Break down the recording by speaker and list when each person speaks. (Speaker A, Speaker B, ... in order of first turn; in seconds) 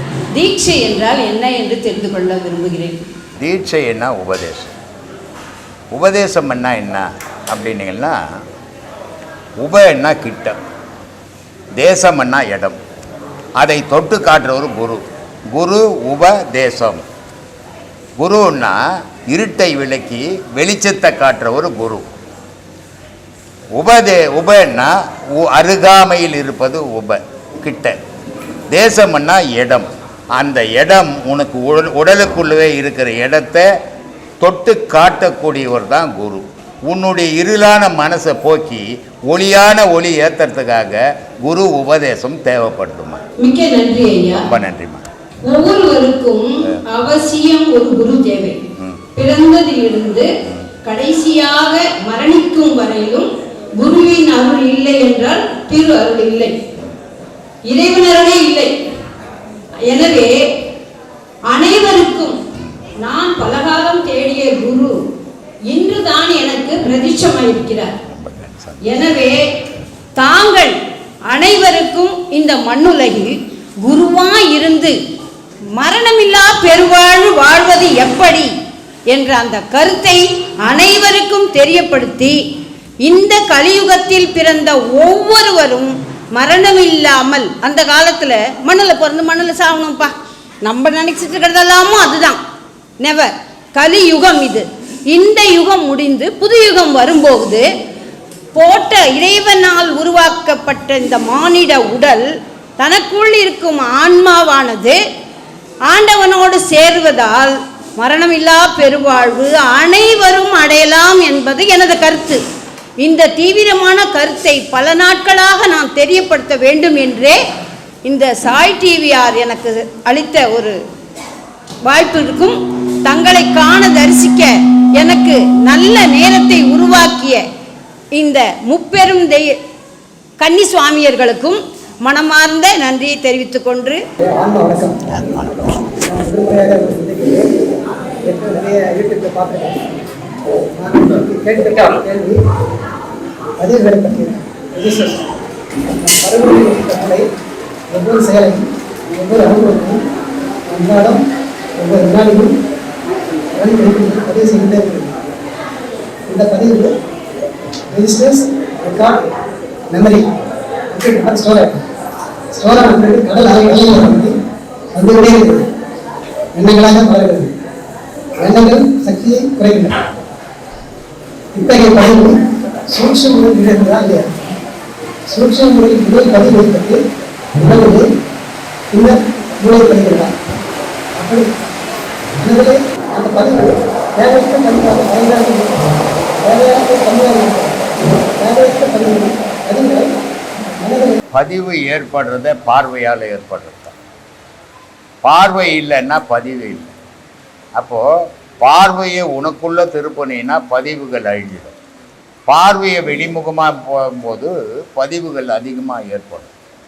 Speaker A: 0.3-3.0, 43.4-44.4, 45.5-48.6, 49.1-50.3, 50.8-53.3, 53.8-56.5, 57.7-58.7, 59.9-60.3, 61.5-62.4, 63.0-64.9, 65.7-67.9, 68.9-69.4, 70.2-70.8, 71.3-75.0, 75.8-78.5, 79.1-82.4, 83.0-90.1, 90.6-92.4, 93.0-97.6, 98.5-105.0, 105.9-112.4, 113.0-117.4, 118.1-120.8, 121.9-127.4, 128.2-129.6, 130.4-134.0
Speaker B: 3.4-4.7, 5.9-8.2, 9.6-10.6, 11.8-12.8, 13.6-17.0, 18.2-22.1, 23.7-27.9, 28.7-33.7, 34.4-43.2, 44.4-45.0, 68.1-69.0, 135.2-135.8, 191.3-193.9, 195.2-196.9, 197.8-198.1, 198.6-201.8, 202.5-206.5
Speaker C: 134.2-135.2, 136.1-137.5, 138.3-139.8, 140.8-142.3, 143.6-145.2, 145.9-147.2, 147.9-148.6, 149.1-150.0, 150.7-151.2, 151.8-152.5, 153.6-155.2, 156.3-156.9, 157.9-159.2, 159.9-160.2, 160.9-161.7, 162.6-164.3, 164.9-165.6, 166.6-167.5, 168.4-169.9, 171.6-172.4, 172.9-174.3, 175.3-177.0, 177.6-178.1, 178.9-180.3, 181.2-181.5, 182.4-185.8, 186.4-190.1, 190.8-191.2